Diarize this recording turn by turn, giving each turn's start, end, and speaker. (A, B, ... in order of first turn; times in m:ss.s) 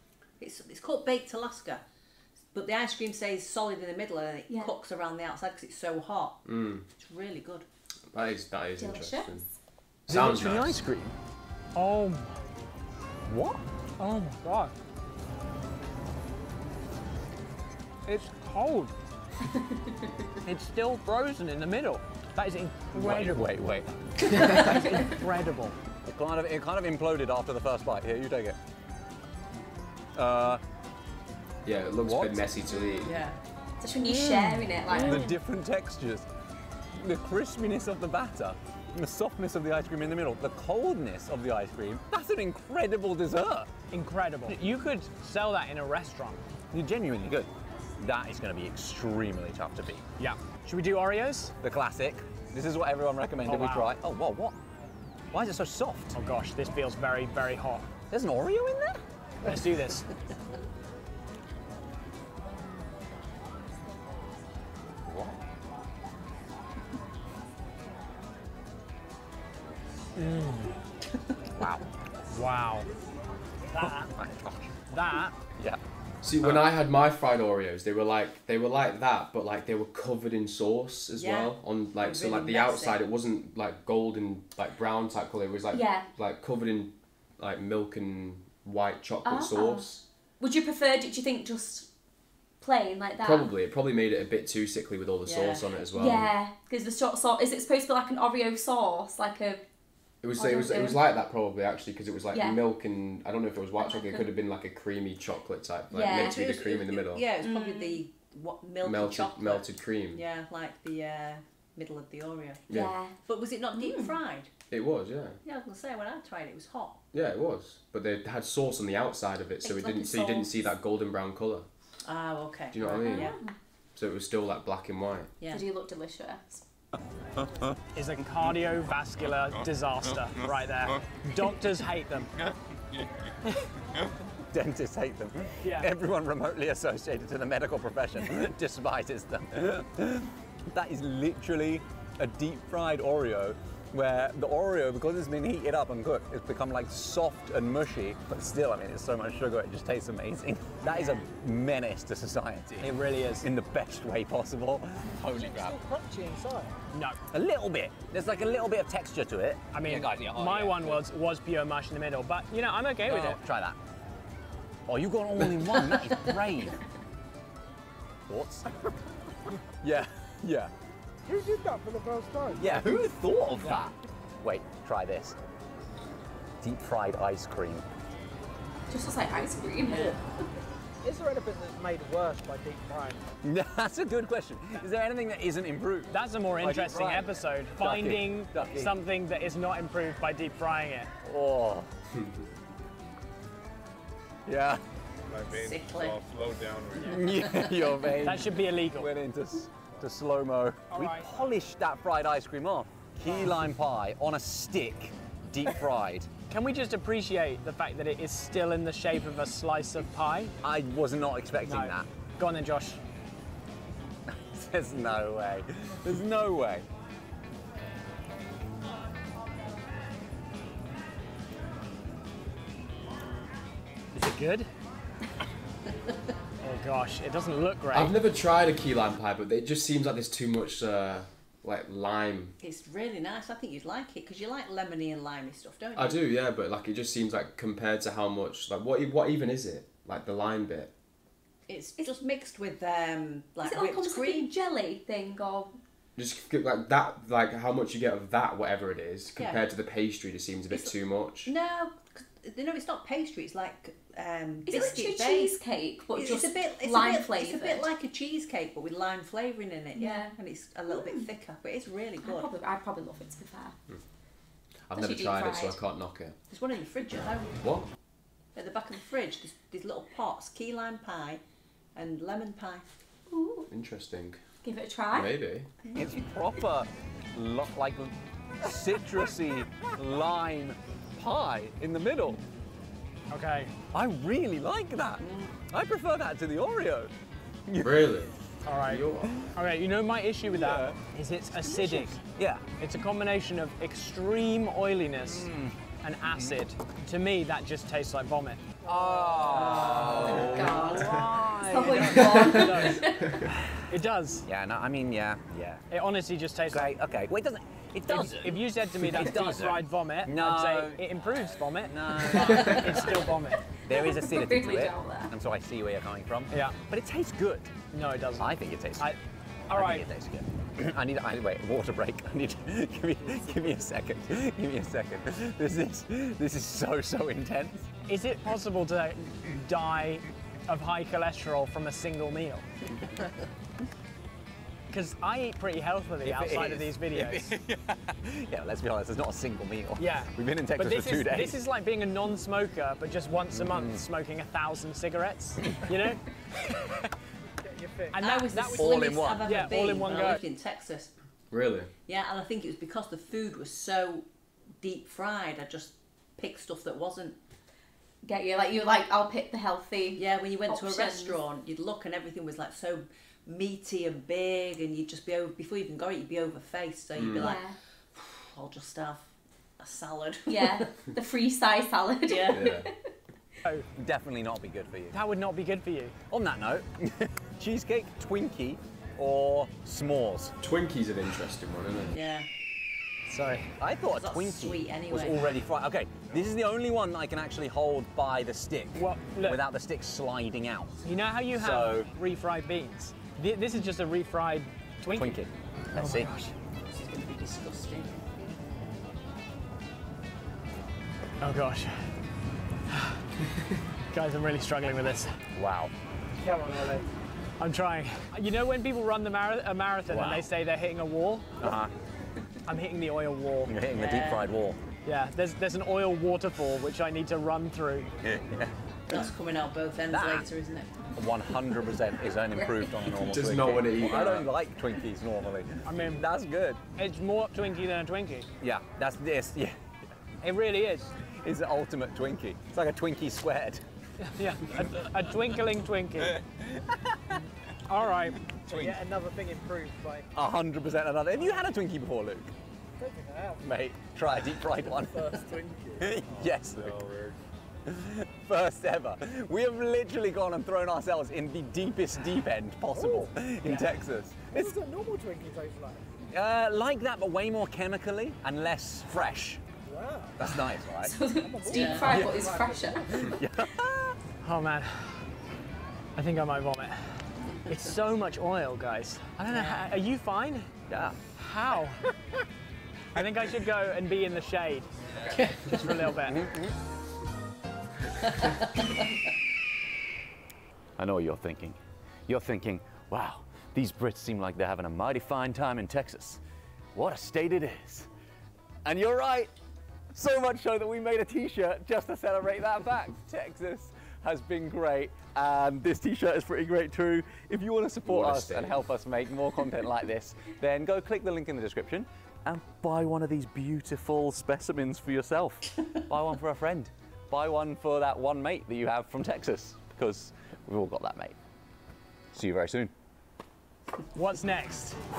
0:00.4-0:01.8 A
0:02.5-0:06.4 A
0:04.5-0:04.8 B
0:06.4-0:06.8 C
0:07.0-0:07.6 A
0:08.1-0:09.4 C
0:08.8-0:09.5 B
0:10.1-0:10.8 C
0:10.1-0:11.1 D
0:11.7-0:12.4 E
0:13.3-0:13.6 D
0:14.0-0:14.7 E
0:18.0-0:18.9 E
0:19.5-0:19.9 B
0:20.4-0:23.4 E
0:22.9-0:24.7 D
0:24.3-0:25.8 E
0:24.4-0:25.2 B
0:26.0-0:28.6 D
0:30.1-0:30.6 D
0:31.6-0:33.1 C
0:32.0-0:32.5 D
0:32.8-0:33.1 B
0:33.0-0:33.4 A
0:33.8-0:35.2 B
0:34.0-0:36.3 D
0:34.9-0:35.3 E
0:36.9-0:43.7 D
0:43.9-0:46.4 E
0:46.7-0:50.0 D
0:50.2-0:51.5 E
0:51.6-0:54.6 D
0:53.4-0:53.9 E
0:55.3-0:56.2 D
0:56.1-0:57.8 E
0:58.1-0:59.0 D
0:59.4-1:00.1 E
1:05.0-1:05.4 D
1:10.2-1:10.8 E
1:11.6-1:11.8 D
1:12.3-1:12.9 E
1:13.7-1:14.1 E
1:13.8-1:14.8 D
1:14.9-1:15.4 E
1:16.2-1:30.0 C
1:16.4-1:16.6 D
1:21.2-1:23.0 A
1:25.7-1:26.0 B
1:29.2-1:29.9 B
1:30.4-1:31.9 B
1:32.6-1:33.5 B
1:33.2-1:36.3 C
1:35.2-1:35.8 A
1:35.9-1:39.6 B
1:40.2-1:47.2 C
1:40.3-1:41.0 B
1:42.3-1:42.6 B
1:43.8-1:44.2 B
1:45.9-1:46.4 B
1:46.1-1:52.6 A
1:47.4-1:48.0 B
1:48.8-1:50.2 C
1:52.7-1:52.9 C
1:52.7-1:53.2 B
1:53.2-1:54.5 A
1:53.8-1:54.1 B
1:54.7-1:55.4 C
1:55.4-1:57.0 A
1:57.1-2:01.7 C
1:59.6-2:00.5 B
2:02.0-2:03.4 A
2:02.7-2:03.4 C
2:02.9-2:03.5 B
2:04.0-2:05.3 C
2:05.5-2:06.6 B
2:07.4-2:07.7 D
2:07.9-2:12.3 E
2:14.5-2:32.9 D
2:15.6-2:15.9 E
2:32.8-2:33.5 E
2:33.4-2:35.8 D
2:35.2-2:36.8 F
2:36.9-2:37.2 E
2:37.3-2:41.0 D
2:39.7-2:43.4 E
2:43.0-2:43.8 D
2:44.9-2:46.8 D
2:48.3-2:48.8 D
2:49.8-2:50.7 D
2:51.3-2:52.9 F
2:52.6-2:55.4 D
2:56.6-2:57.8 D
2:58.9-3:00.2 B
2:59.8-3:00.2 A
3:01.0-3:03.2 F
3:03.4-3:08.9 D
3:06.1-3:11.1 E
3:11.2-3:11.9 D
3:12.1-3:12.4 C
3:14.4-3:14.8 D
3:15.3-3:17.5 G
3:15.5-3:16.2 A
3:17.0-3:26.3 D
3:17.4-3:18.0 A
3:18.2-3:19.1 E
3:20.9-3:21.3 E
3:26.5-3:30.5 E
3:30.6-3:32.1 D
3:31.6-3:33.0 E
3:34.3-3:36.8 D
3:44.1-3:44.7 E
3:46.6-3:48.2 E
3:47.9-3:52.6 C
3:52.6-3:56.2 A
3:56.0-4:00.9 C
4:01.7-4:04.5 A
4:03.6-4:05.7 B
4:06.2-4:11.5 C
4:09.4-4:09.7 A
4:10.7-4:15.6 A
4:14.6-4:17.9 B
4:16.1-4:22.5 A
4:19.9-4:20.4 B
4:20.9-4:21.3 B
4:22.2-4:23.8 B
4:24.9-4:26.4 C
4:25.0-4:25.8 B
4:26.5-4:27.5 A
4:27.6-4:27.8 C
4:28.5-4:31.4 A
4:31.9-4:32.9 A
4:33.3-4:33.7 B
4:33.7-4:34.4 C
4:34.6-4:35.3 B
4:35.1-4:35.7 C
4:35.9-4:42.4 D
4:43.3-4:43.7 E
4:43.9-4:47.1 D
4:45.2-4:45.6 A
4:47.7-4:48.1 D
4:47.8-4:49.4 C
4:48.6-4:52.2 E
4:49.2-4:49.5 D
4:50.5-4:51.0 D
4:51.6-4:52.0 A
4:52.3-4:52.6 D
4:52.8-4:55.5 E
4:55.2-4:55.8 D
4:56.0-4:58.7 E
4:56.3-4:56.6 D
4:58.8-5:02.3 D
4:59.1-4:59.6 F
4:59.5-5:03.3 B
4:59.5-5:00.2 A
5:01.8-5:03.1 E
5:02.1-5:02.8 C
5:03.9-5:04.5 E
5:04.4-5:05.8 D
5:05.9-5:06.9 E
5:06.7-5:11.0 D
5:08.0-5:13.6 E
5:11.8-5:13.3 D
5:12.4-5:12.9 B
5:13.8-5:17.7 D
5:13.9-5:15.3 B
5:16.5-5:16.8 E
5:17.9-5:19.2 E
5:18.4-5:19.1 D
5:19.7-5:20.1 E
5:19.7-5:27.9 D
5:28.1-5:32.6 E
5:34.9-5:37.5 E
5:36.2-5:41.6 D
5:40.0-5:46.3 E
5:43.5-5:44.0 D
5:47.6-5:48.3 F
5:48.1-5:50.4 E
5:48.2-5:51.1 A
5:48.8-5:49.5 D
5:51.5-5:51.9 C
5:52.0-5:54.3 A
5:54.8-5:57.4 A
5:58.2-6:01.4 B
6:00.2-6:10.9 A
6:07.1-6:07.6 C
6:07.3-6:07.8 B
6:10.5-6:12.9 B
6:12.3-6:12.6 A
6:12.5-6:12.9 C
6:14.0-6:15.2 D
6:15.1-6:16.1 E
6:16.3-6:20.5 D
6:20.6-6:22.2 C
6:22.1-6:22.5 A
6:23.3-6:23.7 E
6:23.8-6:32.1 D
6:24.1-6:25.6 A
6:28.9-6:29.6 E
6:31.0-6:35.4 E
6:35.1-6:36.3 D
6:35.9-6:36.5 E
6:36.9-6:38.2 A
6:41.4-6:42.1 E
6:42.9-6:43.2 E
6:44.1-6:45.4 E
6:45.5-6:45.9 D
6:46.4-6:47.0 F
6:47.6-6:51.5 E
6:50.1-6:50.5 D
6:51.6-6:51.9 D
6:52.6-6:53.7 E
6:53.6-6:54.8 D
6:53.9-6:54.6 A
6:55.0-6:58.1 E
6:58.2-6:59.2 D
6:59.1-7:01.1 A
7:00.1-7:00.5 D
7:01.2-7:06.8 D
7:03.1-7:04.5 C
7:05.8-7:06.2 E
7:07.0-7:08.5 E
7:08.6-7:09.8 D
7:10.4-7:11.1 E
7:11.4-7:13.8 D
7:14.2-7:16.4 E
7:14.7-7:15.0 D
7:16.2-7:17.4 D
7:17.8-7:18.4 E
7:18.5-7:19.0 D
7:18.7-7:20.2 F
7:20.3-7:22.5 D
7:23.0-7:23.7 F
7:23.6-7:27.2 D
7:25.1-7:25.9 F
7:26.4-7:27.4 G
7:27.8-7:34.7 D
7:32.9-7:33.3 F
7:33.6-7:33.9 E
7:34.5-7:36.1 F
7:36.3-7:39.6 D
7:39.8-7:40.5 F
7:40.4-7:41.1 D
7:41.0-7:43.4 B
7:41.3-7:43.2 F
7:41.7-7:42.1 A
7:42.0-7:42.5 D
7:43.1-7:44.2 D
7:44.4-7:45.2 E
7:46.2-7:50.7 E
7:49.4-7:49.7 D
7:50.9-7:51.2 D
7:51.4-7:52.0 E
7:53.1-7:56.4 E
7:55.4-7:55.8 A
7:56.3-7:56.7 D
7:58.2-7:59.2 A
8:01.0-8:06.4 D
8:06.9-8:08.1 D
8:08.8-8:09.5 D
8:10.1-8:31.4 D
8:18.0-8:18.8 C
8:32.3-8:32.9 D
8:34.1-8:35.0 E